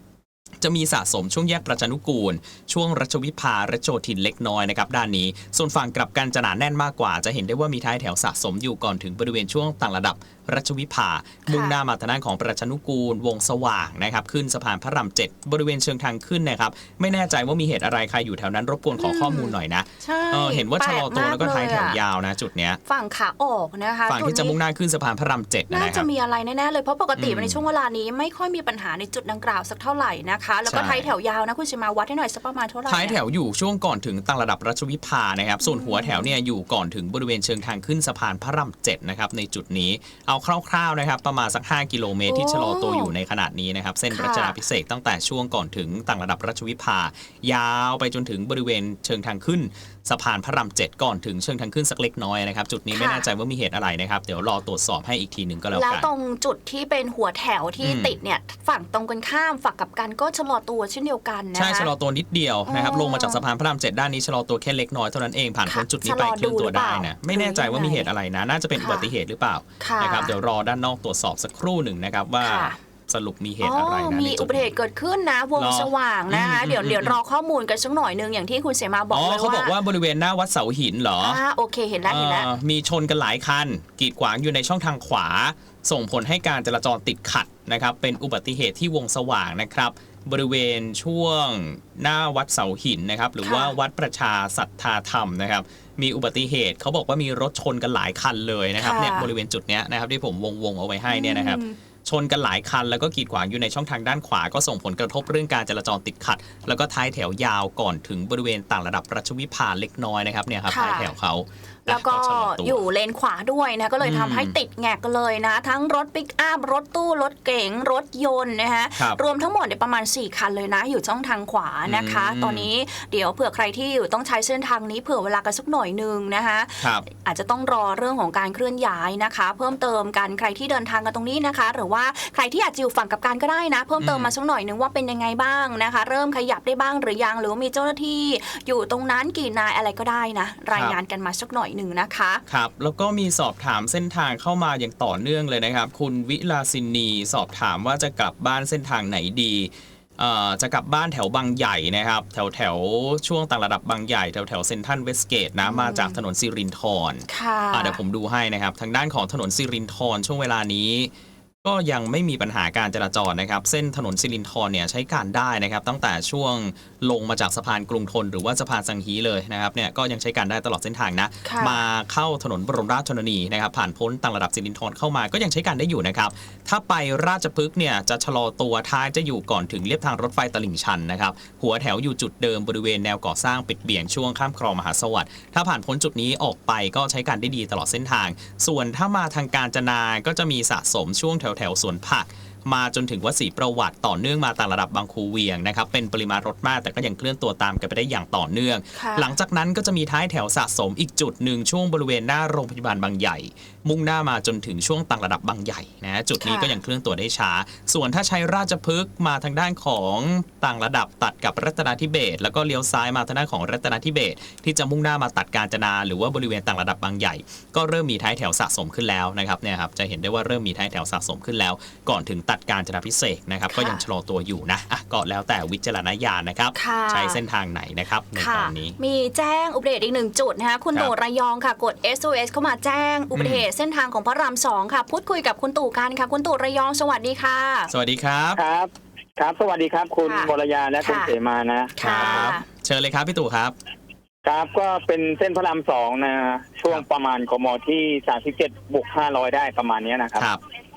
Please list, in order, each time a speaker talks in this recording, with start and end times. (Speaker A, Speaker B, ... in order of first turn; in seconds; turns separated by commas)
Speaker A: 0.6-22.8, Speaker B: 11.5-11.8, Speaker B: 18.9-22.0, Speaker B: 22.9-24.6, Speaker A: 24.1-26.1, Speaker B: 25.7-33.2, Speaker A: 27.1-27.6, Speaker A: 30.6-31.1, Speaker A: 32.9-56.1, Speaker B: 35.6-36.3, Speaker B: 42.2-43.1, Speaker B: 44.1-44.5, Speaker B: 52.9-53.3, Speaker B: 55.7-61.9, Speaker A: 57.8-58.2, Speaker A: 61.5-74.7, Speaker B: 62.7-63.4, Speaker B: 65.6-68.1, Speaker B: 68.7-69.1, Speaker B: 69.8-70.3, Speaker B: 72.4-72.8, Speaker B: 73.6-79.8, Speaker A: 75.5-77.2, Speaker A: 79.1-81.4, Speaker B: 81.2-82.5, Speaker A: 82.0-112.8, Speaker B: 93.4-93.7, Speaker B: 98.8-99.3, Speaker B: 101.1-101.8, Speaker B: 110.7-111.1, Speaker B: 111.8-142.4, Speaker A: 114.0-114.5, Speaker A: 121.8-122.7, Speaker A: 134.0-134.3, Speaker A: 140.7-141.0, Speaker A: 142.5-161.1, Speaker B: 155.6-156.2, Speaker B: 157.3-158.0, Speaker A: 161.6-229.0, Speaker B: 171.4-171.8, Speaker B: 198.9-199.3, Speaker B: 206.4-206.7, Speaker B: 223.7-224.0, Speaker B: 226.7-227.4, Speaker B: 228.3-237.9, Speaker A: 233.3-233.6, Speaker A: 237.9-238.6, Speaker C: 238.6-242.3, Speaker B: 240.2-241.3, Speaker B: 242.0-242.6, Speaker A: 242.0-243.7, Speaker C: 244.4-250.5